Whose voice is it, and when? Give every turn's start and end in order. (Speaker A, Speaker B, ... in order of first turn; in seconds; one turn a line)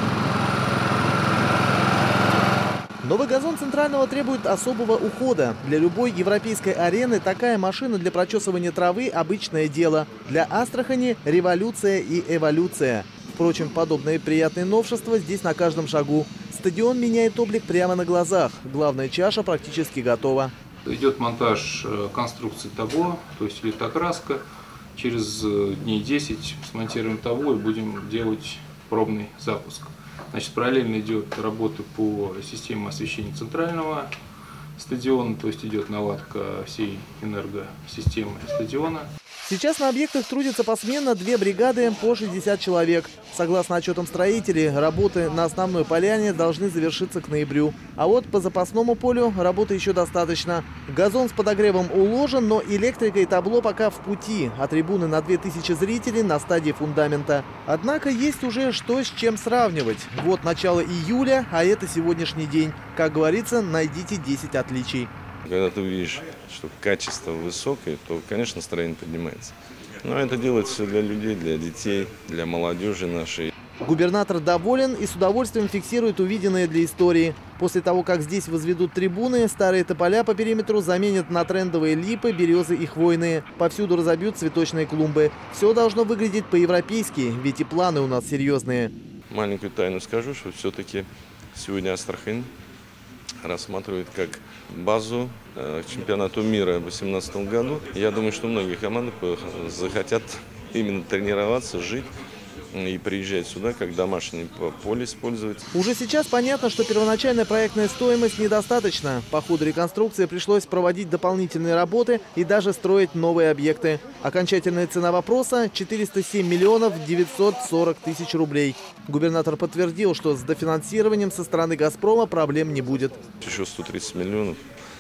Speaker A: 3.0-20.5
Speaker B: 20.9-24.4
Speaker B: 24.9-34.1
Speaker B: 34.8-39.1
Speaker A: 39.5-65.1
Speaker C: 65.4-73.5
Speaker A: 73.8-88.9
Speaker C: 89.3-92.5
Speaker C: 93.4-102.1
Speaker C: 102.7-105.7
Speaker A: 105.7-123.2
Speaker C: 123.4-124.6